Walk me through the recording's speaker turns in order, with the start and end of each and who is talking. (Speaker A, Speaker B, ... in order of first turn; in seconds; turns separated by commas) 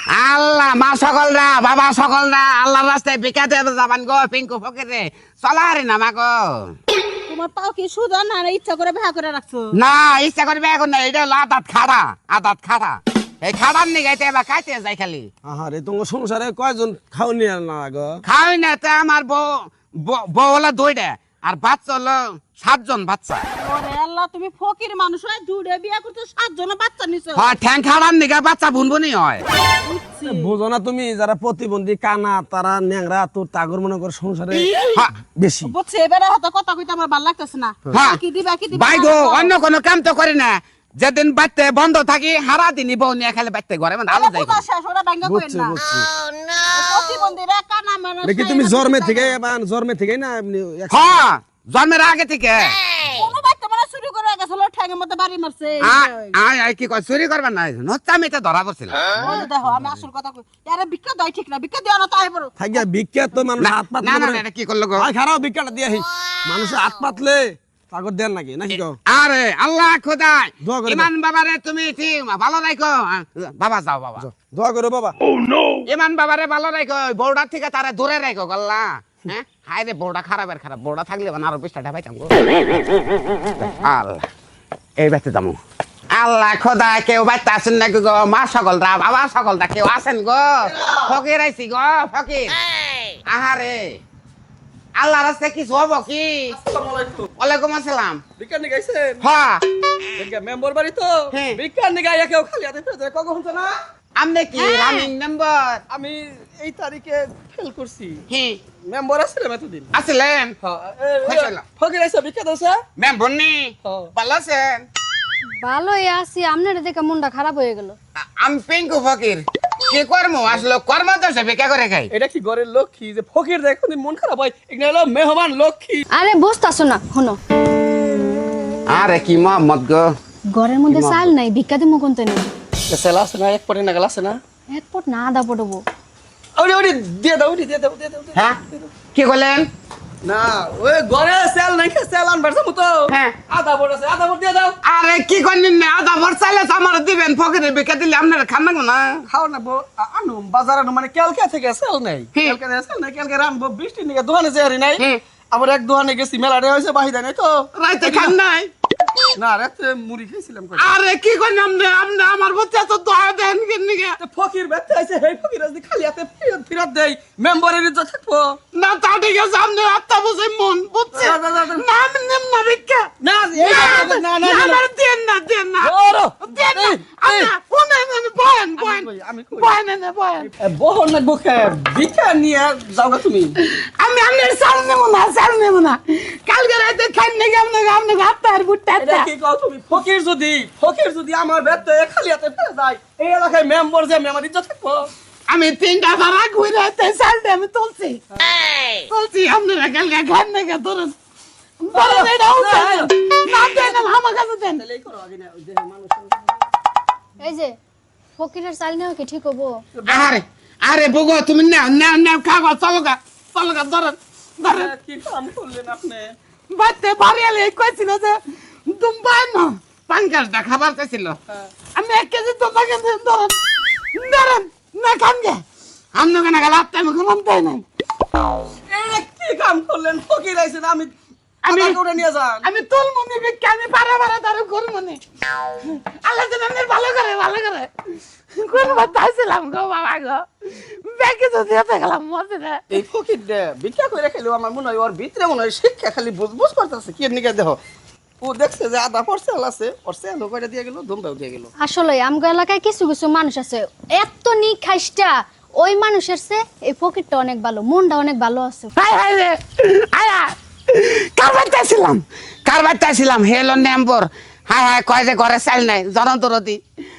Speaker A: 0.1-6.7, Speaker B: 7.3-9.7, Speaker A: 9.7-15.3, Speaker C: 15.4-18.2, Speaker A: 18.2-23.4, Speaker B: 23.6-27.6, Speaker A: 27.3-29.4, Speaker B: 29.8-30.5, Speaker C: 30.2-35.8, Speaker B: 35.6-39.5, Speaker A: 37.9-38.2, Speaker A: 38.7-44.6, Speaker B: 44.1-45.8, Speaker C: 45.2-46.1, Speaker B: 46.7-49.4, Speaker C: 48.2-51.2, Speaker A: 50.9-52.8, Speaker B: 53.0-56.1, Speaker A: 55.8-59.1, Speaker B: 59.1-62.5, Speaker C: 62.6-64.4, Speaker A: 63.6-65.1, Speaker C: 65.0-69.0, Speaker A: 69.1-74.3, Speaker C: 70.6-71.1, Speaker C: 74.2-75.2, Speaker A: 75.9-82.4, Speaker A: 83.6-84.3, Speaker A: 85.0-85.6, Speaker A: 86.1-92.5, Speaker D: 90.7-91.2, Speaker A: 93.3-94.0, Speaker A: 95.0-96.6, Speaker D: 96.5-97.3, Speaker A: 97.4-98.2, Speaker D: 98.4-99.2, Speaker A: 99.2-99.6, Speaker D: 100.2-103.8, Speaker A: 101.3-101.6, Speaker A: 104.2-105.8, Speaker B: 104.6-105.0, Speaker D: 105.9-108.2, Speaker A: 108.3-108.6, Speaker D: 108.8-109.9, Speaker A: 109.9-110.5, Speaker D: 110.6-112.8, Speaker A: 111.3-111.6, Speaker A: 113.0-114.8, Speaker D: 113.8-114.1, Speaker E: 115.6-118.0, Speaker A: 118.4-122.1, Speaker D: 122.1-126.0, Speaker E: 126.1-127.4, Speaker A: 128.9-130.2, Speaker E: 130.5-132.5, Speaker A: 130.9-131.3, Speaker D: 132.9-134.4, Speaker E: 134.7-135.8, Speaker D: 136.6-138.9, Speaker A: 139.1-139.7, Speaker D: 140.2-144.8, Speaker A: 143.1-143.3, Speaker A: 144.8-149.2, Speaker D: 149.3-158.4, Speaker A: 157.8-158.7, Speaker D: 159.3-160.9, Speaker A: 160.8-164.2, Speaker D: 164.2-168.6, Speaker A: 168.7-180.5, Speaker D: 171.1-171.9, Speaker D: 173.2-174.8, Speaker D: 175.8-177.5, Speaker D: 178.8-179.7, Speaker D: 180.4-183.5, Speaker A: 183.6-189.3, Speaker D: 189.0-195.1, Speaker A: 195.5-198.2, Speaker A: 199.1-201.2, Speaker A: 201.9-204.8, Speaker D: 201.9-206.5, Speaker E: 208.4-209.7, Speaker B: 209.1-209.7, Speaker D: 209.9-210.4, Speaker A: 210.1-214.9, Speaker D: 214.7-216.3, Speaker A: 216.7-221.4, Speaker A: 221.9-223.6, Speaker A: 224.1-225.6, Speaker A: 226.1-227.8, Speaker D: 228.9-231.1, Speaker A: 231.6-232.0, Speaker D: 231.7-232.7, Speaker A: 232.6-235.2, Speaker A: 235.9-237.9, Speaker A: 238.5-240.4, Speaker A: 241.1-243.0, Speaker D: 242.9-247.8, Speaker D: 248.4-251.7, Speaker E: 251.8-258.9, Speaker A: 258.9-266.8